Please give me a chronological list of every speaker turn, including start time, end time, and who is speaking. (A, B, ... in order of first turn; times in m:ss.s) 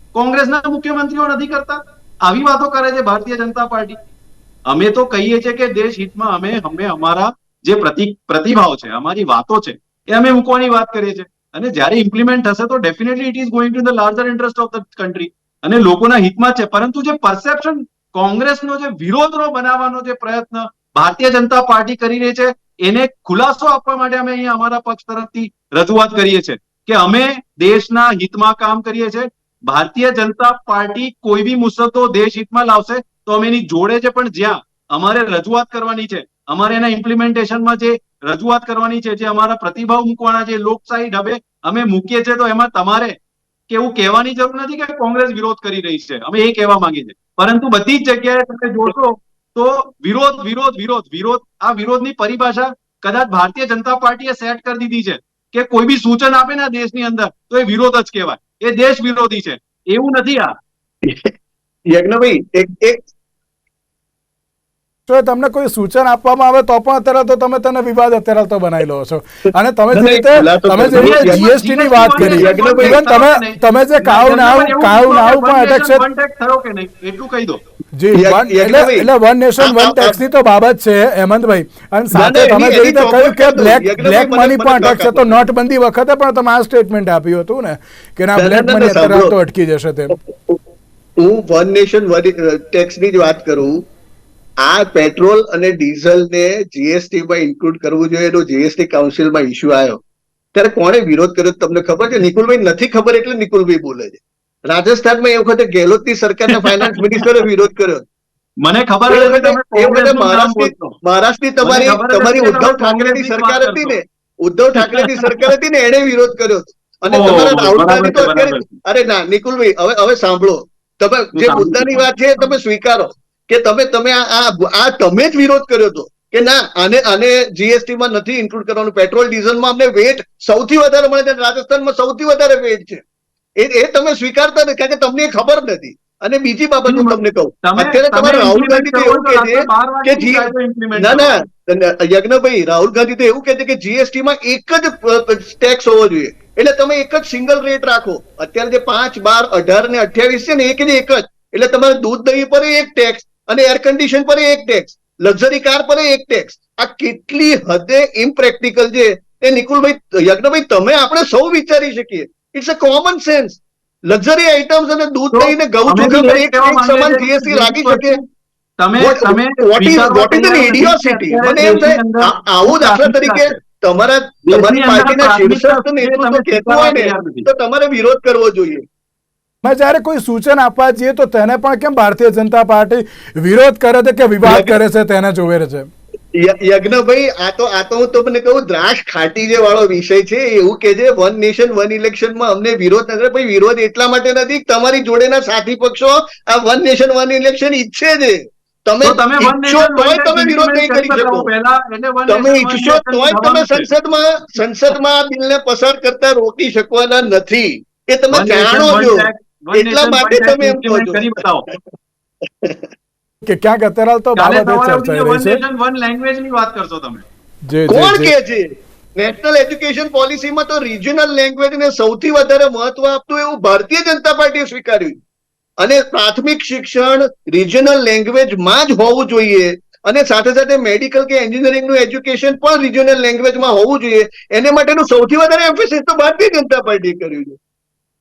0:00.1-0:04.0 A
0:04.7-0:43.2 A
0:43.7-1:00.5 A
1:01.0-1:01.3 B
1:01.9-1:03.0 B
1:05.1-1:16.0 C
1:09.9-1:11.5 B
1:10.9-1:17.6 A
1:12.2-1:13.0 B
1:18.0-1:30.2 C
1:18.1-1:19.1 B
1:19.6-1:20.2 B
1:22.1-1:25.4 B
1:28.4-1:29.3 B
1:30.1-1:30.6 B
1:31.2-1:33.8 B
1:34.6-1:40.0 B
1:40.5-1:48.0 B
1:48.6-1:51.0 A
1:49.1-2:13.0 B
1:51.6-1:54.0 A
1:54.8-1:55.5 A
1:57.1-1:58.7 A
2:01.4-2:02.0 A
2:13.6-2:48.2 B
2:16.9-2:21.4 A
2:45.3-2:48.2 A
2:48.8-2:53.6 A
2:49.0-2:58.8 B
2:54.5-2:57.4 A
2:59.6-3:05.9 C
3:04.4-3:04.8 B
3:06.3-3:21.5 B
3:19.0-3:23.9 A
3:22.3-3:31.8 B
3:28.3-3:31.7 A
3:32.5-3:32.9 B
3:33.4-3:35.6 C
3:34.4-3:37.2 A
3:37.7-3:38.3 C
3:37.9-3:45.2 B
3:45.8-3:57.6 B